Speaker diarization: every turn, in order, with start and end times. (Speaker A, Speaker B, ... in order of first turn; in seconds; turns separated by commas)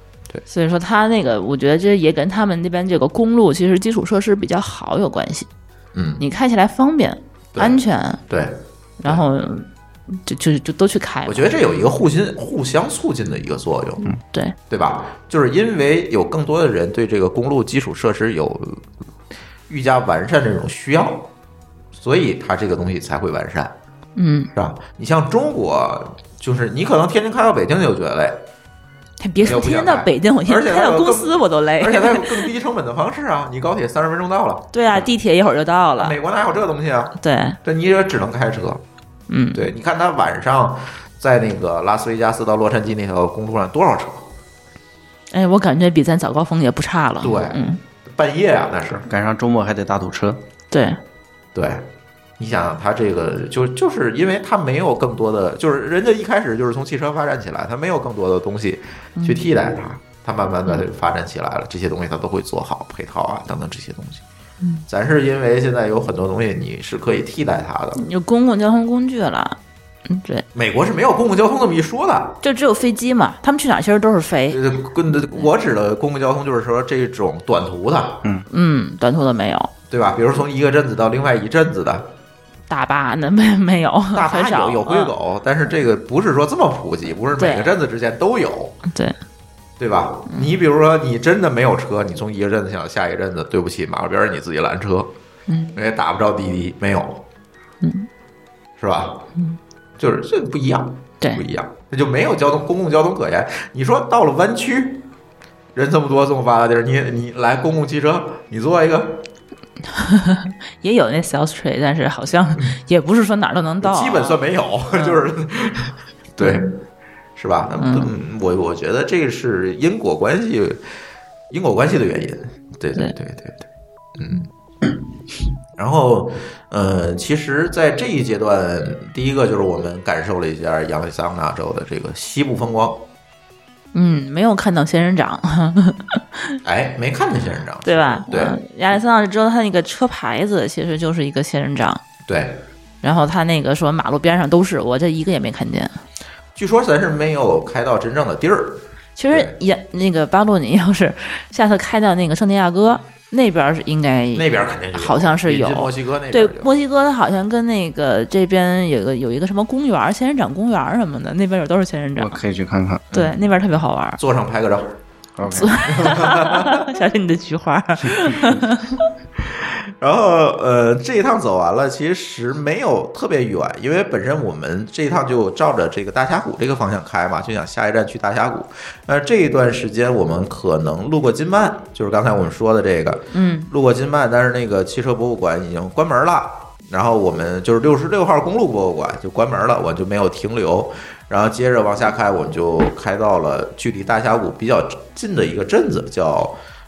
Speaker A: 0.5-5.5, Speaker B: 5.9-6.2, Speaker A: 6.2-8.2, Speaker B: 7.5-9.2, Speaker A: 9.0-11.9, Speaker B: 11.3-14.1, Speaker A: 14.3-14.6, Speaker B: 14.7-18.9, Speaker B: 19.7-21.3, Speaker B: 21.9-23.8, Speaker A: 24.2-24.5, Speaker B: 24.6-28.4, Speaker A: 29.2-32.5, Speaker B: 29.4-34.7, Speaker A: 34.7-36.2, Speaker B: 36.0-38.8, Speaker A: 37.2-37.6, Speaker A: 39.3-39.7, Speaker B: 39.5-44.3, Speaker A: 45.3-47.8, Speaker B: 47.2-49.1, Speaker C: 49.1-50.4, Speaker A: 50.7-51.0, Speaker B: 51.5-51.9, Speaker B: 52.4-64.2, Speaker B: 64.9-68.0, Speaker A: 68.0-70.5, Speaker B: 70.5-72.4, Speaker A: 72.4-74.6, Speaker B: 74.5-78.2, Speaker A: 78.5-79.7, Speaker B: 79.9-82.1, Speaker A: 82.7-85.1, Speaker B: 84.1-88.8, Speaker A: 87.3-87.7, Speaker A: 88.9-89.2, Speaker B: 89.8-95.1, Speaker A: 90.3-90.5, Speaker A: 95.5-95.8, Speaker B: 95.8-97.2, Speaker A: 97.8-98.1, Speaker B: 98.8-99.2, Speaker B: 100.0-105.1, Speaker B: 105.7-109.2, Speaker A: 109.9-114.4, Speaker B: 113.8-116.7, Speaker A: 114.9-115.2, Speaker A: 116.4-116.7, Speaker B: 117.4-120.8, Speaker A: 117.8-118.1, Speaker B: 121.5-123.7, Speaker B: 124.2-124.5, Speaker B: 125.8-133.1, Speaker A: 133.9-136.6, Speaker B: 136.7-138.6, Speaker A: 137.8-142.0, Speaker B: 142.3-142.6, Speaker A: 143.0-146.0, Speaker B: 146.6-149.5, Speaker A: 149.2-162.4, Speaker B: 154.3-156.7, Speaker C: 162.2-163.1, Speaker B: 163.1-163.4, Speaker A: 163.1-164.2, Speaker B: 164.2-165.0, Speaker C: 165.4-165.9, Speaker A: 165.5-169.1, Speaker B: 165.9-166.9, Speaker C: 168.2-168.6, Speaker B: 169.4-196.6, Speaker A: 183.3-183.7